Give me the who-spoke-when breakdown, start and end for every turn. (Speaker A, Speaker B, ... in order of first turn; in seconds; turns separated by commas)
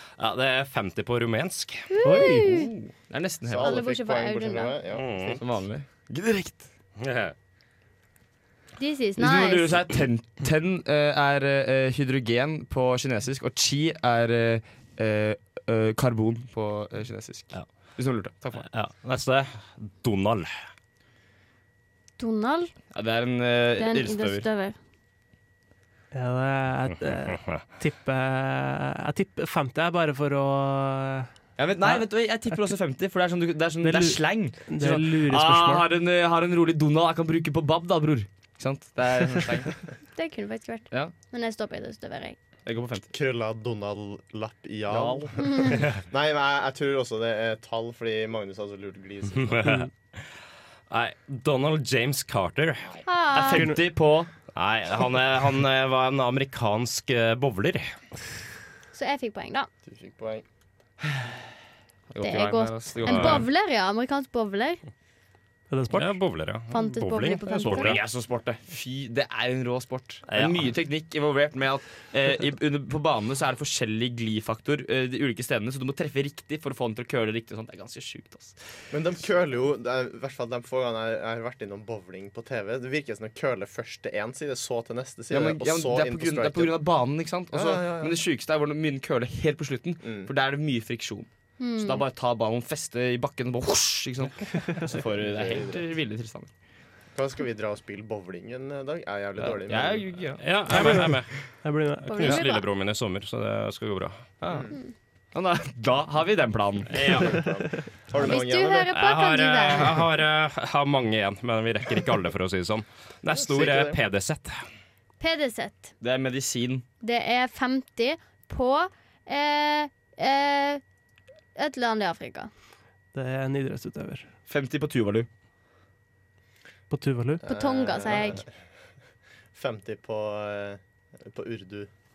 Speaker A: 0.2-1.9, Speaker B: 1.9-2.7, Speaker C: 2.0-2.6, Speaker D: 2.2-3.8, Speaker E: 3.5-5.4, Speaker B: 3.6-4.8, Speaker A: 4.9-5.4, Speaker D: 5.4-6.7, Speaker A: 7.0-7.3, Speaker B: 8.8-9.8, Speaker D: 9.2-18.6, Speaker A: 17.5-17.9, Speaker A: 18.6-20.5, Speaker B: 22.2-22.7, Speaker D: 22.9-24.4, Speaker B: 23.8-24.8, Speaker C: 26.1-31.3, Speaker D: 31.6-39.9, Speaker C: 33.8-35.9, Speaker B: 40.1-42.4, Speaker D: 42.7-43.1, Speaker E: 43.1-49.6, Speaker D: 44.9-45.2, Speaker A: 49.4-49.9, Speaker A: 50.9-52.9, Speaker B: 53.0-53.7, Speaker D: 53.3-54.3, Speaker A: 54.5-57.9, Speaker B: 58.9-59.7, Speaker E: 59.9-60.4, Speaker D: 62.1-63.5, Speaker B: 62.2-64.8, Speaker A: 63.0-63.5, Speaker C: 65.7-66.1, Speaker A: 65.9-68.0, Speaker B: 66.7-68.0, Speaker D: 67.7-78.6, Speaker A: 70.3-70.7, Speaker E: 78.9-86.8, Speaker D: 85.3-96.5, Speaker E: 87.5-88.2, Speaker E: 90.0-90.3, Speaker B: 91.6-92.0, Speaker E: 94.9-95.8, Speaker E: 97.1-100.0, Speaker D: 99.4-100.4, Speaker A: 100.4-101.3, Speaker C: 100.7-102.1, Speaker B: 102.1-102.7, Speaker A: 102.1-104.2, Speaker D: 104.4-104.7, Speaker D: 105.3-107.3, Speaker A: 106.9-107.5, Speaker E: 107.1-108.9, Speaker B: 108.2-110.0, Speaker A: 108.9-114.6, Speaker E: 113.3-114.0, Speaker B: 115.2-115.9, Speaker D: 116.0-116.8, Speaker B: 117.0-120.8, Speaker B: 121.6-122.5, Speaker C: 123.1-124.3, Speaker D: 124.5-125.3, Speaker C: 126.9-127.4, Speaker E: 127.4-128.5, Speaker B: 127.4-128.4, Speaker E: 129.5-131.9